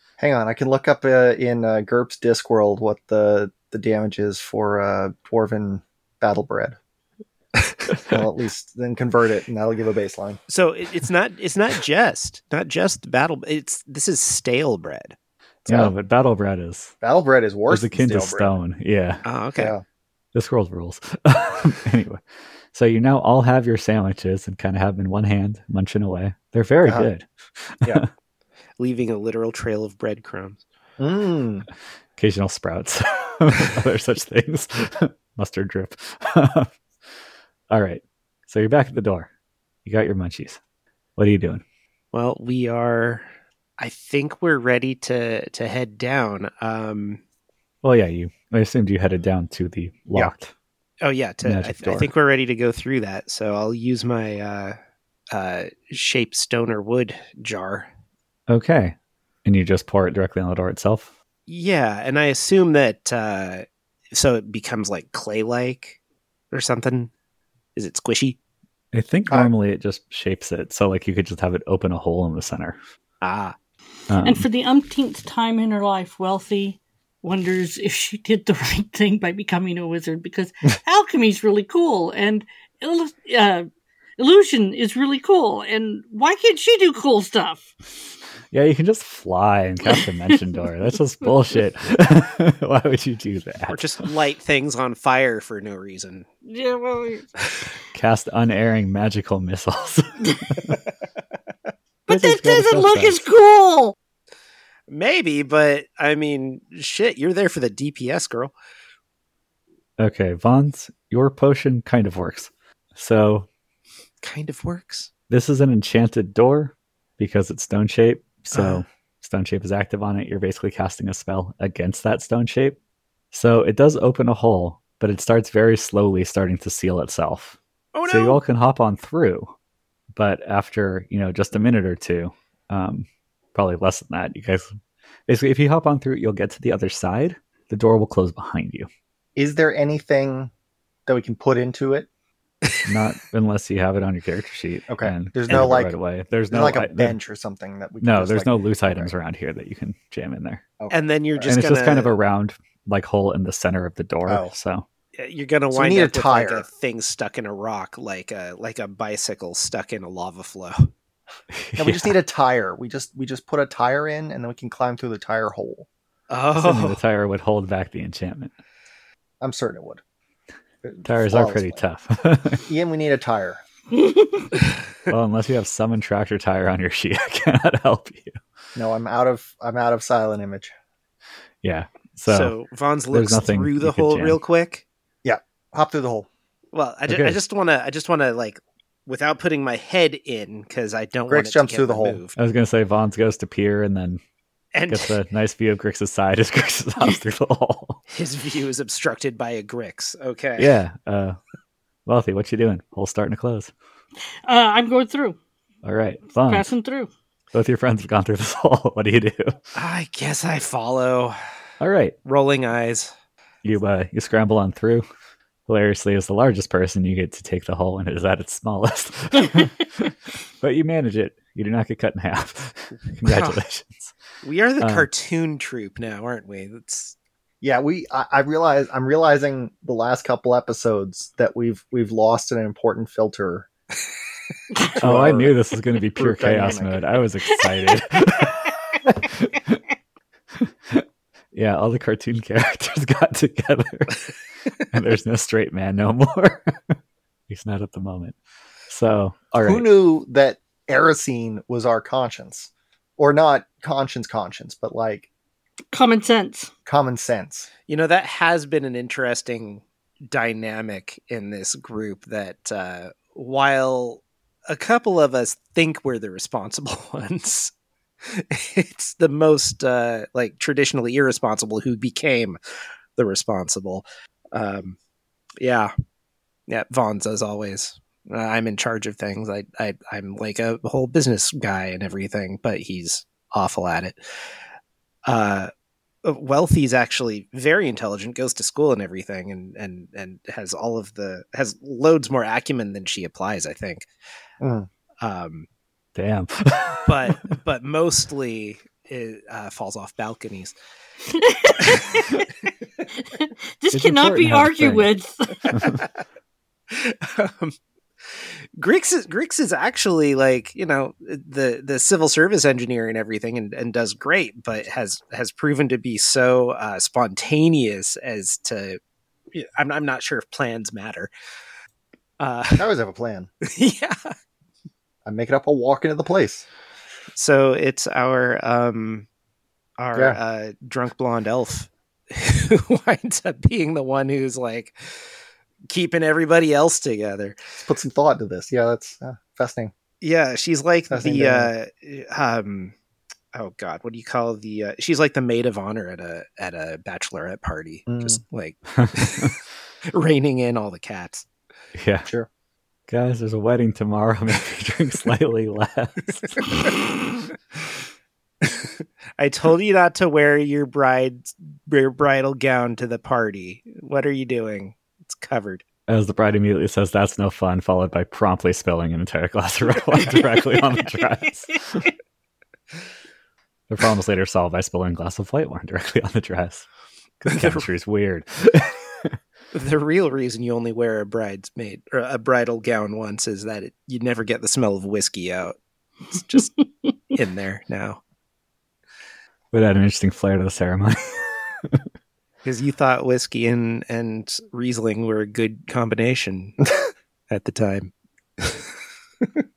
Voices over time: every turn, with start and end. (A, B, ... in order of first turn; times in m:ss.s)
0:00.2-0:06.8 A
0:07.9-0:10.4 A
0:10.5-0:15.1 B
0:15.6-0:15.9 A
0:15.7-0:16.9 C
0:17.0-0:18.6 A
0:17.7-0:19.2 C
0:19.2-0:19.7 B
0:19.6-0:19.8 A
0:20.3-0:22.2 C
0:22.7-0:28.1 C
0:28.8-0:30.6 B
0:31.0-0:31.7 A
0:32.2-0:36.7 C
0:37.7-0:39.3 C
0:39.8-0:40.6 C
0:41.2-0:41.6 C
0:42.1-0:43.2 B
0:43.8-0:47.2 B
0:47.8-0:50.5 C
0:51.0-0:54.8 B
0:51.4-0:52.1 C
0:55.3-0:57.9 B
0:58.5-1:01.1 C
1:01.5-1:06.0 B
1:06.5-1:07.1 B
1:07.8-1:08.4 B
1:08.9-1:12.8 C
1:13.2-1:13.6 B
1:14.1-1:14.4 C
1:14.2-1:23.6 D
1:24.2-1:27.7 D
1:28.5-1:33.9 C
1:33.7-1:36.3 B
1:36.4-1:37.3 D
1:37.9-1:40.8 C
1:42.1-1:43.9 D
1:42.1-1:43.2 C
1:44.9-1:48.5 B
1:50.0-1:53.5 C
1:54.2-1:55.1 B
1:55.3-2:02.8 C
1:58.5-1:58.8 B
2:03.3-2:09.5 C
2:07.9-2:08.4 B
2:10.1-2:14.7 C
2:15.3-2:18.9 C
2:19.4-2:20.5 A
2:21.1-2:22.1 A
2:22.9-2:27.2 C
2:24.9-2:25.9 A
2:26.5-2:29.1 A
2:28.0-2:30.6 C
2:30.8-2:31.5 A
2:30.9-2:32.2 B
2:31.4-2:34.8 C
2:34.2-2:34.5 A
2:35.1-2:40.9 B
2:35.7-2:36.6 A
2:41.5-2:42.2 C
2:41.8-2:45.9 A
2:46.3-2:47.0 B
2:46.6-2:48.5 C
2:49.4-2:50.0 A
2:50.8-2:51.8 A
2:51.0-2:52.6 C
2:52.6-2:53.6 A
2:54.0-2:54.5 D
2:55.1-2:58.4 C
2:58.7-3:00.7 A
3:01.6-3:02.5 C
3:02.3-3:04.8 B
3:03.1-3:04.4 C
3:05.2-3:06.3 A
3:06.7-3:12.4 B
3:07.1-3:07.4 C
3:11.3-3:12.2 A
3:12.4-3:14.2 C
3:14.7-3:15.2 B
3:14.9-3:18.0 C
3:18.1-3:20.7 B
3:20.6-3:21.4 C
3:22.0-3:23.7 C
3:24.4-3:25.4 D
3:25.8-3:26.7 C
3:26.4-3:27.1 D
3:27.5-3:29.6 C
3:29.7-3:31.4 B
3:31.8-3:32.1 C
3:32.2-3:33.1 B
3:33.6-3:35.0 C
3:35.7-3:44.1 C
3:43.2-3:43.6 B
3:44.4-3:47.1 B
3:44.8-3:45.1 C
3:47.6-3:53.7 A
3:54.9-3:55.6 A
3:55.0-3:59.8 C
3:56.2-3:57.1 A
4:00.6-4:04.3 C
4:04.8-4:06.9 C
4:07.5-4:08.4 C
4:08.9-4:09.9 C
4:09.6-4:15.3 A
4:15.9-4:16.7 D
4:16.9-4:17.7 A
4:17.9-4:27.7 B
4:28.2-4:32.6 B
4:33.2-4:35.0 B
4:35.6-4:35.9 B
4:36.7-4:44.2 B
4:45.3-4:45.7 B
4:46.2-4:54.1 B
4:54.6-4:54.9 A
4:55.2-4:55.7 B
4:56.1-4:57.1 C
4:57.0-5:00.7 B
5:01.3-5:02.5 D
5:01.8-5:02.2 B
5:03.2-5:05.8 D
5:03.9-5:05.1 C
5:05.7-5:06.0 C
5:06.9-5:07.7 B
5:08.3-5:19.0 B
5:19.5-5:21.3 B
5:22.4-5:22.9 B
5:22.8-5:23.5 A
5:23.6-5:24.3 B
5:25.2-5:26.6 A
5:27.3-5:29.3 B
5:30.0-5:35.3 B
5:35.9-5:37.6 B
5:37.8-5:39.9 A
5:40.2-5:42.9 B
5:41.1-5:41.7 A
5:43.5-5:49.6 B
5:48.1-5:48.4 A
5:49.0-5:49.5 C
5:50.1-5:51.4 B
5:51.9-5:52.3 C
5:53.1-5:56.8 C
5:58.6-6:05.8 B
6:06.1-6:12.1 C
6:13.9-6:16.9 C
6:17.4-6:19.4 C
6:17.4-6:17.9 B
6:19.7-6:25.8 B
6:26.3-6:26.7 B
6:27.3-6:28.2 B
6:29.7-6:32.0 C
6:32.6-6:36.8 B
6:37.5-6:38.8 B